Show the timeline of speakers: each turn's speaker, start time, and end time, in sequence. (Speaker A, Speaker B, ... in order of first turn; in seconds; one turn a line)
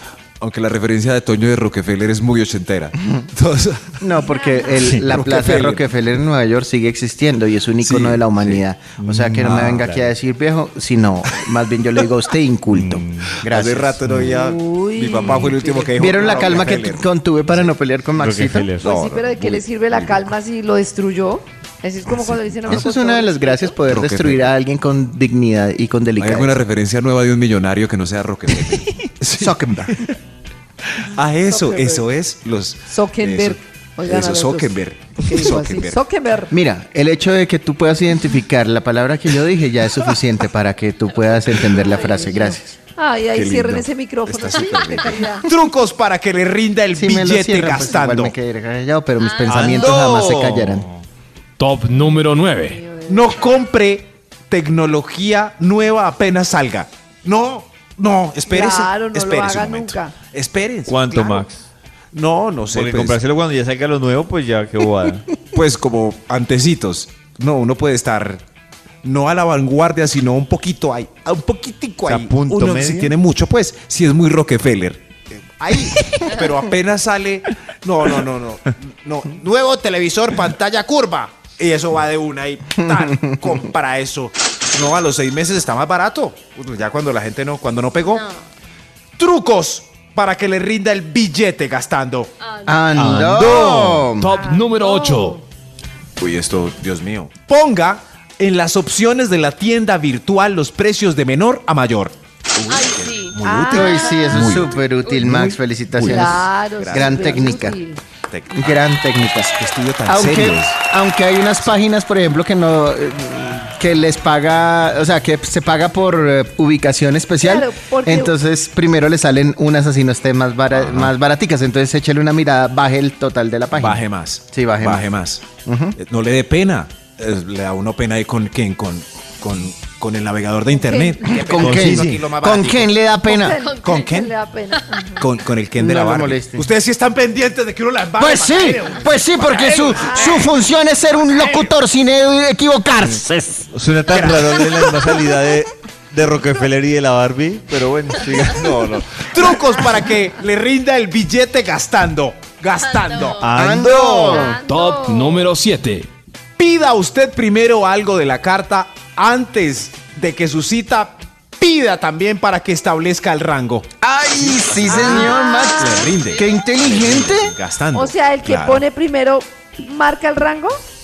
Speaker A: 0.4-4.0
Speaker B: 4.0-14.0
Speaker C: 4.4-4.7
Speaker D: 4.8-5.0
Speaker A: 4.8-5.9
Speaker A: 7.8-8.6
Speaker D: 9.0-10.1
Speaker D: 12.7-13.3
Speaker A: 13.4-17.7
Speaker C: 14.2-16.7
Speaker B: 16.0-18.7
Speaker D: 18.1-18.9
Speaker C: 18.8-23.8
Speaker A: 18.8-20.3
Speaker A: 22.1-22.8
Speaker B: 22.7-26.6
Speaker A: 23.8-24.5
Speaker A: 26.2-30.1
Speaker D: 28.7-29.0
Speaker B: 29.4-30.1
Speaker A: 31.0-36.0
Speaker C: 31.5-32.0
Speaker C: 32.9-36.5
Speaker B: 36.5-42.8
Speaker C: 41.9-45.5
Speaker A: 43.3-48.3
Speaker B: 46.9-50.9
Speaker D: 49.4-51.0
Speaker E: 51.6-52.8
Speaker C: 52.6-53.3
Speaker A: 53.1-61.4
Speaker C: 58.5-60.1
Speaker D: 60.9-61.6
Speaker C: 61.1-61.4
Speaker A: 62.1-63.2
Speaker D: 62.7-65.3
Speaker A: 65.5-68.4
Speaker A: 69.0-88.3
Speaker D: 72.0-73.1
Speaker B: 83.1-83.4
Speaker A: 89.2-92.3
Speaker B: 92.6-94.3
Speaker E: 92.9-95.4
Speaker C: 94.3-95.4
Speaker A: 96.2-107.7
Speaker C: 103.4-104.2
Speaker B: 103.7-107.8
Speaker C: 106.1-108.0
Speaker A: 108.3-108.9
Speaker B: 108.5-125.1
Speaker A: 109.6-110.8
Speaker C: 117.4-118.3
Speaker A: 120.7-121.1
Speaker A: 123.7-125.4
Speaker B: 125.6-126.0
Speaker A: 126.0-132.9
Speaker C: 130.7-131.3
Speaker B: 131.2-133.6
Speaker D: 131.5-132.2
Speaker C: 133.2-135.2
Speaker A: 133.8-134.3
Speaker A: 135.2-140.6
Speaker B: 135.8-136.7
Speaker B: 138.2-143.7
Speaker A: 141.3-141.7
Speaker D: 143.7-148.7
Speaker A: 144.1-145.0
Speaker A: 148.2-153.4
Speaker D: 153.4-154.5
Speaker B: 153.5-154.6
Speaker C: 154.2-155.4
Speaker E: 154.4-156.1
Speaker A: 156.6-163.9
Speaker B: 164.0-167.5
Speaker A: 164.6-168.8
Speaker C: 164.9-166.1
Speaker C: 167.9-170.8